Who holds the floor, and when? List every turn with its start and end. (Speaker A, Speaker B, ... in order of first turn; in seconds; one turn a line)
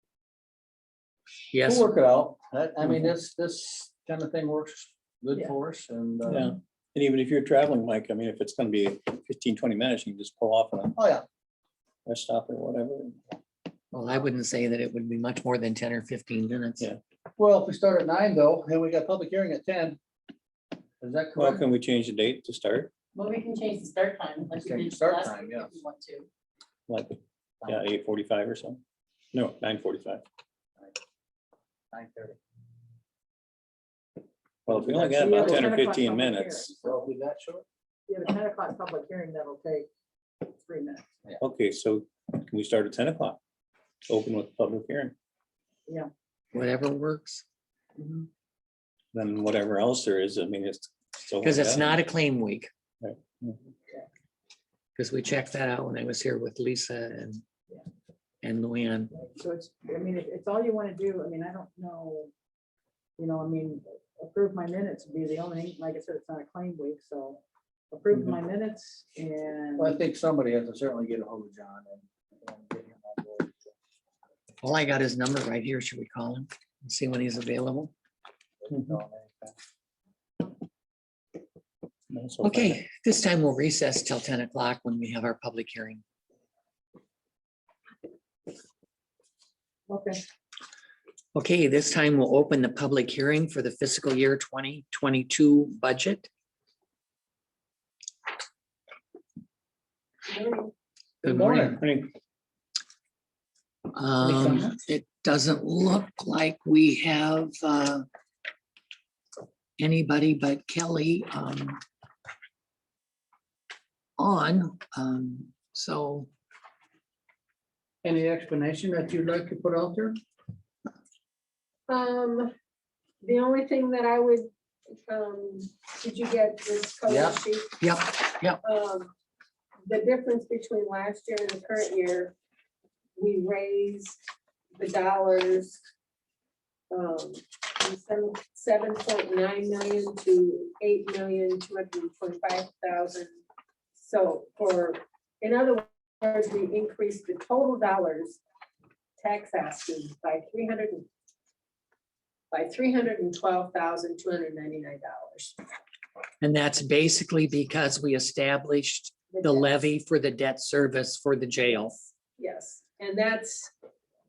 Speaker A: 1.5-1.9
Speaker B: 1.6-6.5
Speaker C: 6.3-11.0
Speaker B: 11.0-11.2
Speaker C: 12.1-13.2
Speaker A: 13.9-16.9
Speaker B: 17.4-20.0
Speaker B: 21.0-21.6
Speaker C: 21.4-22.9
Speaker D: 23.1-26.3
Speaker B: 24.5-25.7
Speaker C: 26.9-28.8
Speaker C: 29.3-30.2
Speaker B: 31.9-32.4
Speaker B: 34.7-35.7
Speaker C: 34.7-36.7
Speaker E: 35.0-36.9
Speaker B: 36.8-37.6
Speaker E: 38.1-39.9
Speaker E: 40.4-41.1
Speaker C: 41.4-43.4
Speaker C: 44.1-45.1
Speaker A: 46.5-47.4
Speaker E: 48.0-48.3
Speaker C: 49.1-52.0
Speaker A: 51.4-52.7
Speaker C: 53.0-53.6
Speaker A: 55.0-57.4
Speaker A: 58.4-59.1
Speaker E: 59.2-62.3
Speaker E: 63.2-67.4
Speaker E: 67.9-70.0
Speaker B: 69.8-73.7
Speaker A: 74.6-77.9
Speaker B: 78.6-79.5
Speaker C: 82.1-82.8
Speaker A: 82.4-86.0
Speaker E: 89.9-90.2
Speaker A: 91.3-96.3
Speaker F: 100.3-100.7
Speaker B: 101.2-101.8
Speaker A: 101.2-101.8
Speaker C: 101.8-102.1
Speaker A: 103.9-108.1
Speaker B: 104.2-104.8
Speaker A: 109.8-111.8
Speaker A: 114.2-116.3
Speaker B: 118.0-120.2
Speaker F: 121.9-122.5
Speaker F: 123.2-127.8
Speaker B: 127.1-127.4
Speaker A: 127.8-128.6
Speaker F: 128.6-129.1
Speaker F: 129.9-132.3
Speaker F: 133.2-134.2
Speaker F: 134.8-135.8
Speaker F: 136.9-143.3
Speaker F: 144.0-148.4
Speaker F: 149.2-151.1
Speaker F: 152.5-155.6
Speaker A: 156.4-161.9
Speaker F: 159.3-159.8
Speaker F: 162.0-163.7